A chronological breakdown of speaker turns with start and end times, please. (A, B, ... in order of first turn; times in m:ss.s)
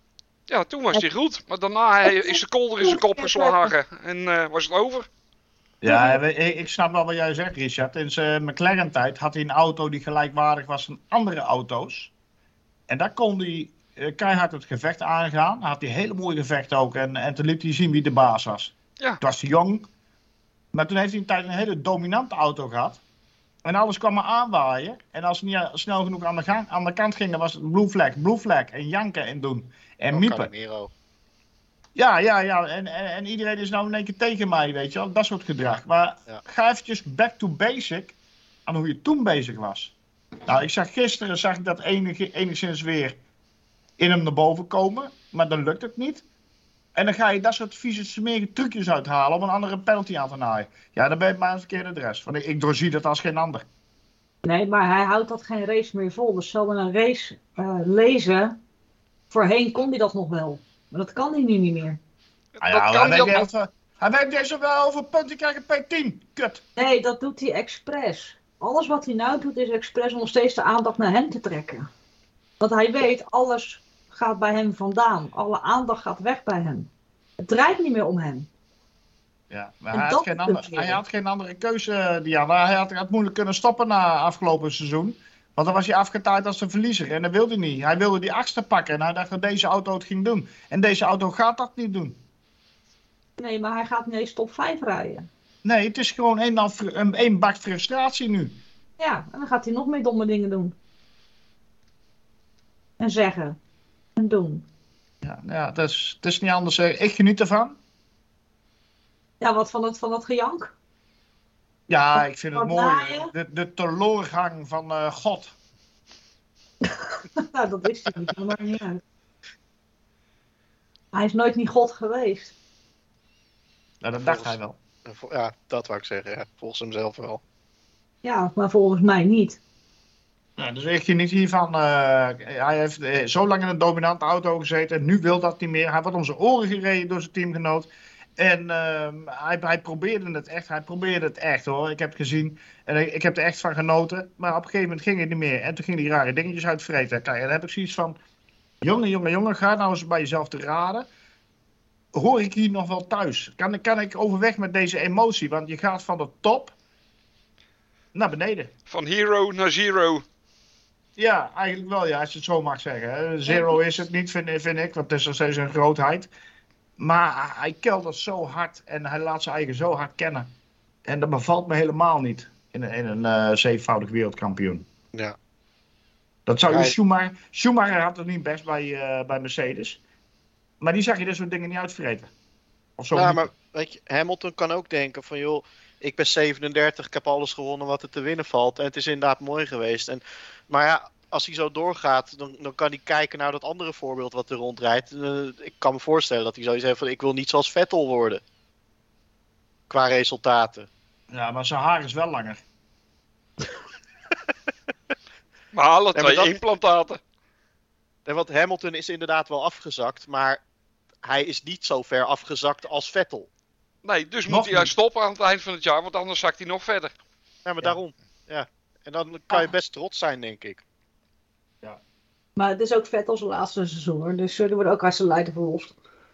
0:00.5-0:05.1 A
0:02.0-0:03.7 B
0:05.8-0:12.1 C
0:05.9-0:06.2 B
0:12.9-0:19.9 C
0:20.7-0:23.0 C
0:23.6-0:30.5 C
0:30.1-0:30.9 D
0:32.0-0:40.0 C
0:40.5-0:43.2 C
0:44.0-0:46.2 C
0:47.0-0:53.7 C
0:54.4-0:58.6 B
0:59.3-1:02.0 B
1:02.6-1:03.5 A
1:02.6-1:06.6 C
1:06.8-1:11.9 B
1:12.6-1:16.9 B
1:17.4-1:18.5 B
1:19.5-1:32.2 C
1:19.9-1:21.0 B
1:33.4-1:35.3 B
1:35.6-1:38.6 C
1:39.0-1:40.8 B
1:43.0-1:43.6 B
1:44.2-1:44.6 B
1:45.2-1:47.8 C
1:49.4-1:50.7 B
1:51.9-1:55.6 C
1:52.1-1:53.3 B
1:56.8-1:59.0 B
2:01.1-2:02.6 B
2:04.0-2:04.8 C
2:04.2-2:07.4 D
2:08.2-2:09.6 B
2:10.6-2:28.2 C
2:28.8-2:31.1 C
2:32.1-2:36.8 C
2:38.1-2:38.7 C
2:38.9-2:40.2 A
2:41.2-2:46.3 C
2:43.5-2:43.8 B
2:47.0-2:50.5 C
2:51.1-2:54.9 C
2:56.5-3:00.0 C
2:56.7-2:57.0 D
3:00.8-3:02.3 C
3:03.0-3:03.5 C
3:03.1-3:18.4 D
3:19.9-3:20.9 D
3:21.3-3:22.6 C
3:25.7-3:27.2 A
3:26.1-3:26.6 D
3:28.3-3:30.6 D
3:31.2-3:33.5 D
3:34.0-3:37.1 A
3:34.5-3:34.9 C
3:37.6-3:40.8 D
3:42.6-3:46.0 B